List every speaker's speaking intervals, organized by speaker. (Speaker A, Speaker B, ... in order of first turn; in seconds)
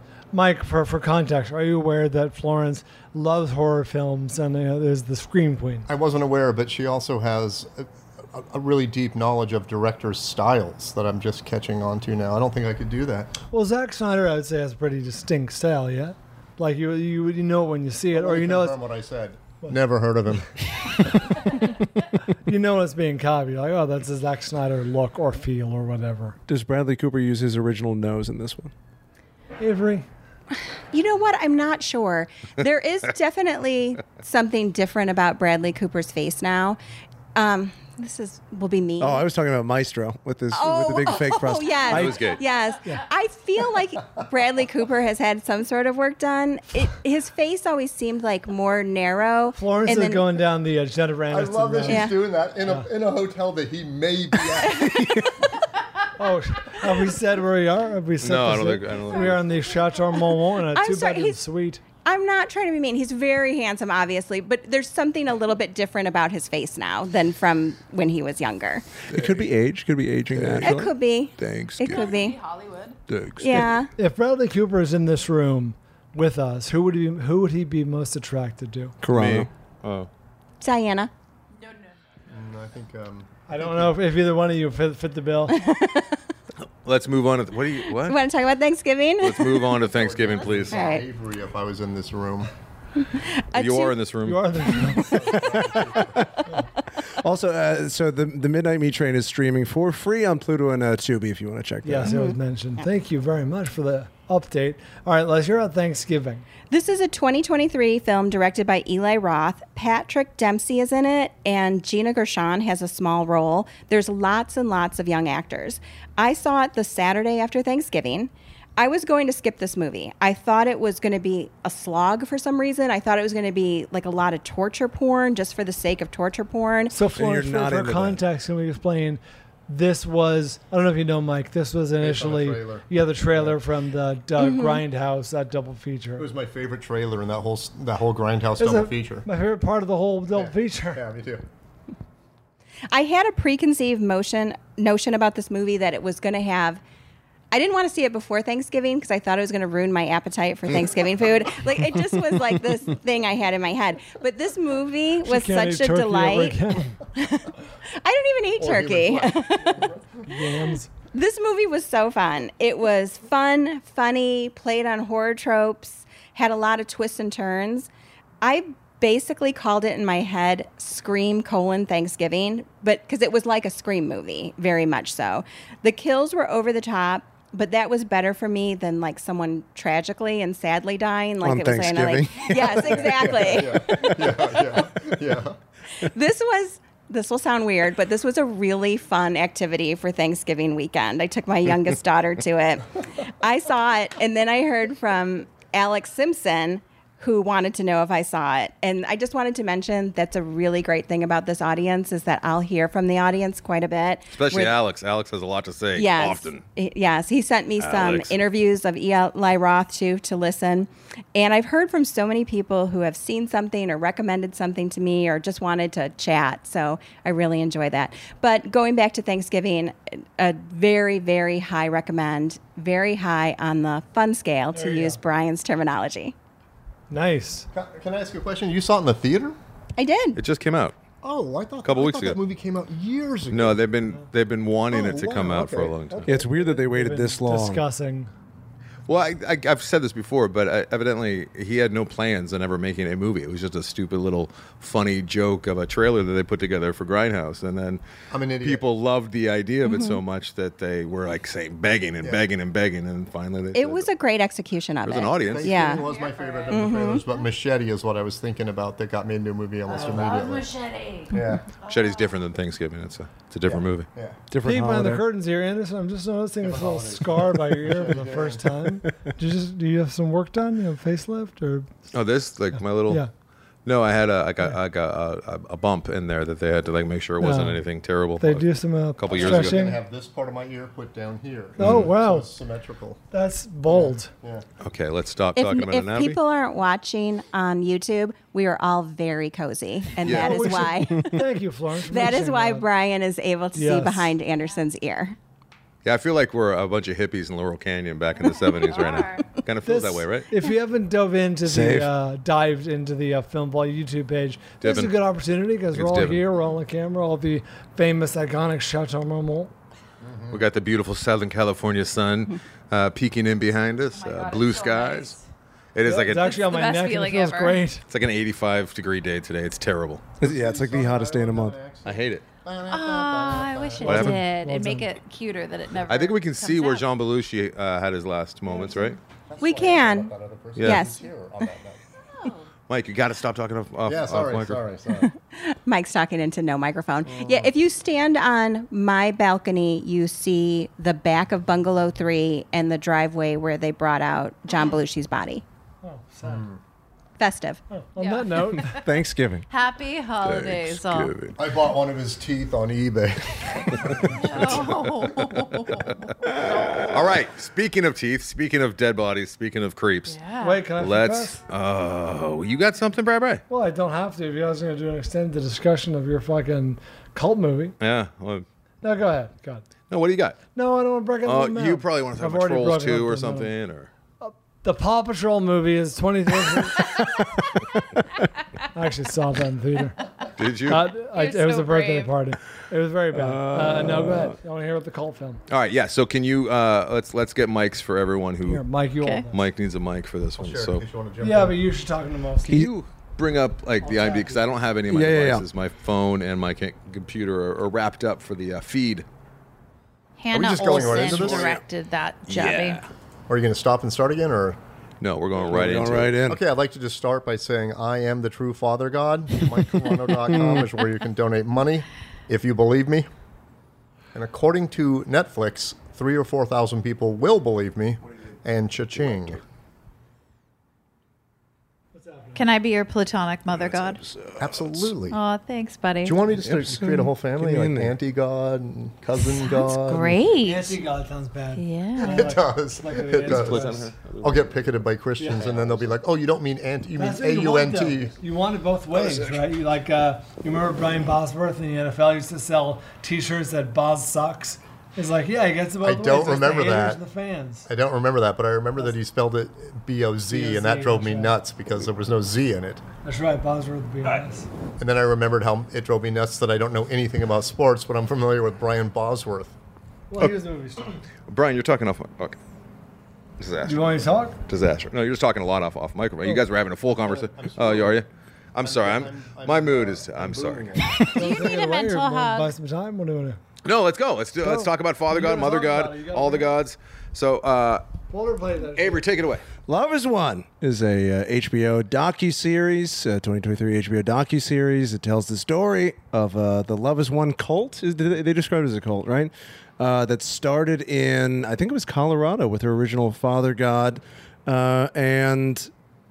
Speaker A: 0.3-5.9, 13.5-18.8, 22.5-26.4, 29.6-30.1, 49.6-52.1, 56.2-61.8, 74.0-79.0, 83.5-85.6, 94.2-95.5, 101.8-106.5, 126.9-136.3, 138.6-141.0, 155.2-157.0, 160.3-160.9, 224.7-225.2, 227.1-227.7, 236.4-238.3, 264.6-271.9, 277.4-277.8, 278.4-280.0, 281.8-282.5, 283.3-284.3, 290.2-292.9, 293.8-294.3, 299.9-309.7, 316.1-318.0, 324.0-325.1, 346.0-346.6, 347.9-348.9, 360.6-361.6, 363.7-367.9, 369.0-369.9, 370.8-373.7, 374.4-377.2, 378.9-380.2, 380.9-385.6, 388.7-389.6, 391.4-392.8, 394.0-394.6, 422.1-422.6, 430.6-434.1, 435.4-435.7, 437.2-447.9, 450.5-451.6, 453.2-454.7, 460.3-461.2, 463.9-464.6, 471.3-473.6, 474.6-476.7, 478.3-479.2
Speaker B: 5.9-13.3, 18.1-20.5, 51.3-54.9, 82.3-83.9, 89.9-92.5, 95.0-96.2, 132.0-133.6, 136.2-139.3, 140.3-141.4, 158.6-160.2, 182.8-185.6, 227.7-229.6, 231.2-233.8, 234.9-236.2, 248.3-248.8, 255.5-260.7, 261.3-261.6, 263.7-264.4, 266.6-268.7, 279.3-283.2, 283.9-284.6, 310.2-310.6, 320.4-324.3, 329.5-332.0, 334.1-335.3, 346.4-346.8, 351.6-354.8, 390.6-391.8, 400.5-401.8, 403.5-404.8, 406.5-413.3, 414.3-419.6, 424.6-425.4, 426.2-430.4, 432.2-438.3, 446.0-447.2, 447.9-453.0, 455.0-459.8, 467.2-468.2, 468.8-471.2
Speaker C: 26.5-28.7, 39.0-42.2, 54.6-55.3, 69.1-72.0, 73.1-73.8, 79.0-79.5, 97.2-102.2, 127.1-128.2, 181.4-183.1, 236.3-237.8, 264.5-265.2, 301.7-302.1, 320.4-321.8, 348.8-349.7, 350.7-351.5, 383.3-384.5, 395.1-395.6, 405.6-406.6, 410.5-410.9, 426.6-428.1, 479.9-495.9
Speaker D: 30.6-36.8, 37.4-39.2, 40.5-50.3, 51.9-52.2, 54.7-55.0, 60.7-61.4, 62.0-68.8, 70.6-72.4, 73.4-73.9, 80.6-81.1, 85.5-86.2, 88.0-89.8, 90.7-91.0, 93.0-94.0, 106.7-127.0, 134.4-134.8, 142.9-146.8, 147.5-156.6, 157.2-159.9, 161.1-167.9, 168.4-184.7, 186.0-204.8, 205.9-226.3, 230.0-230.4, 249.8-250.2, 253.8-256.1, 256.7-257.2, 285.6-291.4, 292.1-295.4, 329.6-331.2, 335.2-345.6, 347.4-347.8
Speaker E: 41.9-42.4, 58.2-59.4, 79.1-80.1, 86.8-88.2, 89.2-90.8, 93.5-94.5, 204.3-206.6, 207.8-208.3, 230.4-230.9, 231.8-232.4, 233.5-236.3, 239.1-248.0, 248.6-254.1, 255.0-255.8, 261.9-264.1, 272.1-273.2, 273.9-278.7, 279.2-279.8, 284.8-286.4, 290.2-290.7, 296.0-300.5, 304.8-305.1, 305.9-306.4, 310.5-315.4, 315.9-316.6, 318.1-320.3, 322.1-322.4, 324.0-324.4, 326.1-329.2, 330.8-331.0, 332.9-334.8, 350.4-350.8, 354.6-354.9, 357.0-360.4, 361.0-363.6, 368.0-368.6, 370.1-370.6, 371.4-374.1, 380.6-381.1, 385.7-388.9, 389.5-391.0, 392.7-399.2, 401.1-401.8, 402.5-403.1, 405.2-406.4, 433.5-434.7, 461.5-462.6, 463.6-464.1, 464.7-471.0, 473.9-478.0, 479.0-479.6
Speaker F: 71.8-73.0, 81.6-82.0, 255.9-257.4, 259.9-262.4, 298.4-299.5, 314.1-315.4, 316.4-317.8, 322.9-327.0, 332.3-332.7, 348.2-349.1, 349.7-351.4, 354.3-357.0, 360.3-360.9, 381.3-382.4, 400.4-403.1, 422.6-424.2, 425.3-426.4, 429.6-431.0, 431.8-432.5, 471.0-472.7